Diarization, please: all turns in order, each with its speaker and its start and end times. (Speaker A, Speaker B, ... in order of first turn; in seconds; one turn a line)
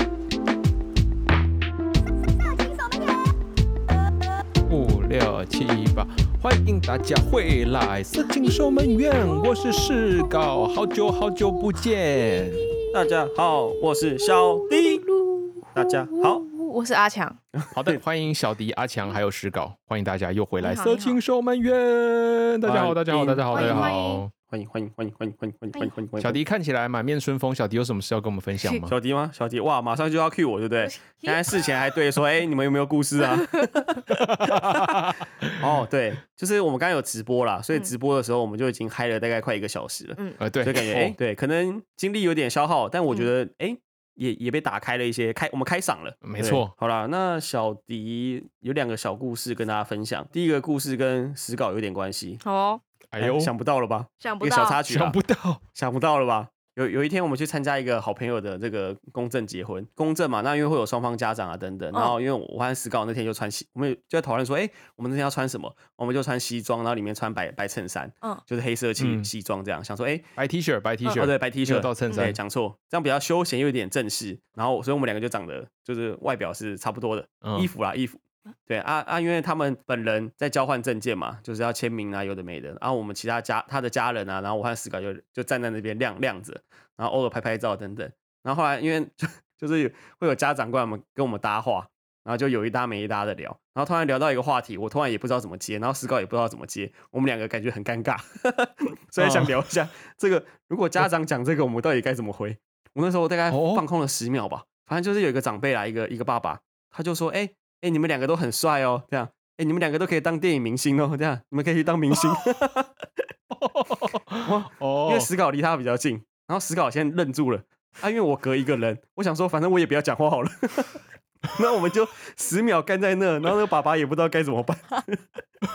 Speaker A: 4.7-12.7
Speaker B: 8.2-9.9
Speaker C: 12.9-15.0
Speaker B: 14.4-17.4
Speaker C: 15.8-16.4
Speaker C: 17.6-18.0
Speaker A: 17.7-24.3
Speaker B: 20.6-21.2
Speaker C: 22.6-23.9
Speaker B: 23.5-24.2
Speaker C: 24.5-26.4
Speaker A: 26.2-28.9
Speaker C: 28.9-52.4
Speaker B: 30.8-31.4
Speaker A: 34.1-35.5
Speaker A: 40.4-41.2
Speaker A: 46.2-46.7
Speaker B: 52.4-52.8
Speaker A: 53.1-53.5
Speaker C: 53.2-55.2
Speaker B: 54.2-54.8
Speaker A: 54.9-55.6
Speaker C: 55.7-70.3
Speaker A: 69.0-69.3
Speaker A: 70.4-72.4
Speaker C: 71.0-112.9
Speaker A: 77.4-77.7
Speaker A: 99.2-99.5
Speaker A: 103.5-103.8
Speaker A: 113.5-115.3
Speaker C: 114.4-121.0
Speaker C: 121.5-125.2